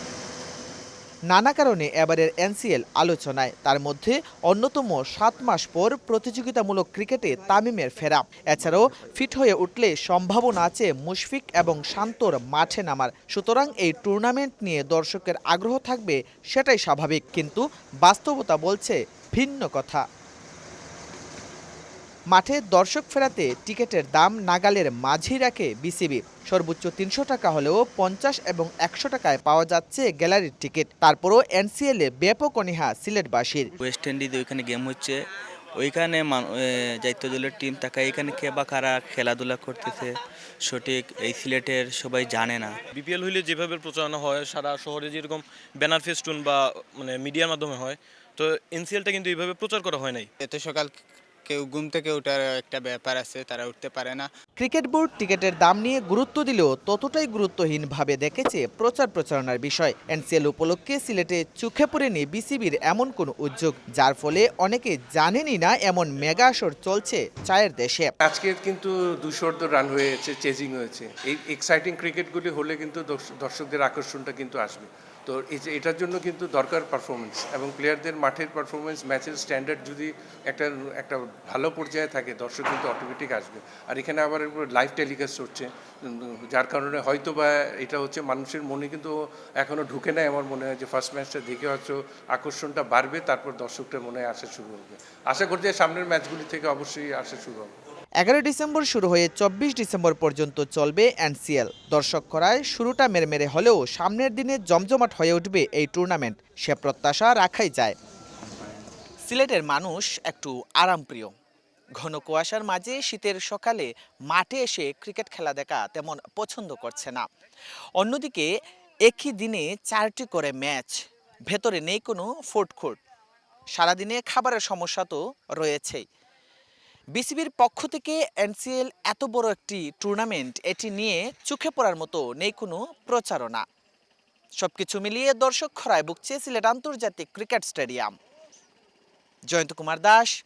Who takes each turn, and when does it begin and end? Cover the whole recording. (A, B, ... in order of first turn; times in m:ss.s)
0:01.3-0:20.0 A
0:22.3-0:33.7 A
0:33.8-0:42.8 B
0:42.9-0:50.3 C
0:50.4-0:54.3 D
0:54.6-1:08.1 A
1:08.2-1:37.7 E
1:38.2-1:48.0 A
1:49.2-1:51.3 A
1:52.0-1:57.2 A
1:58.0-1:58.5 A
1:59.0-2:01.0 A
2:01.5-2:03.0 A
2:03.7-2:06.0 A
2:07.2-2:13.6 A
2:14.6-2:18.1 A
2:19.5-2:20.3 A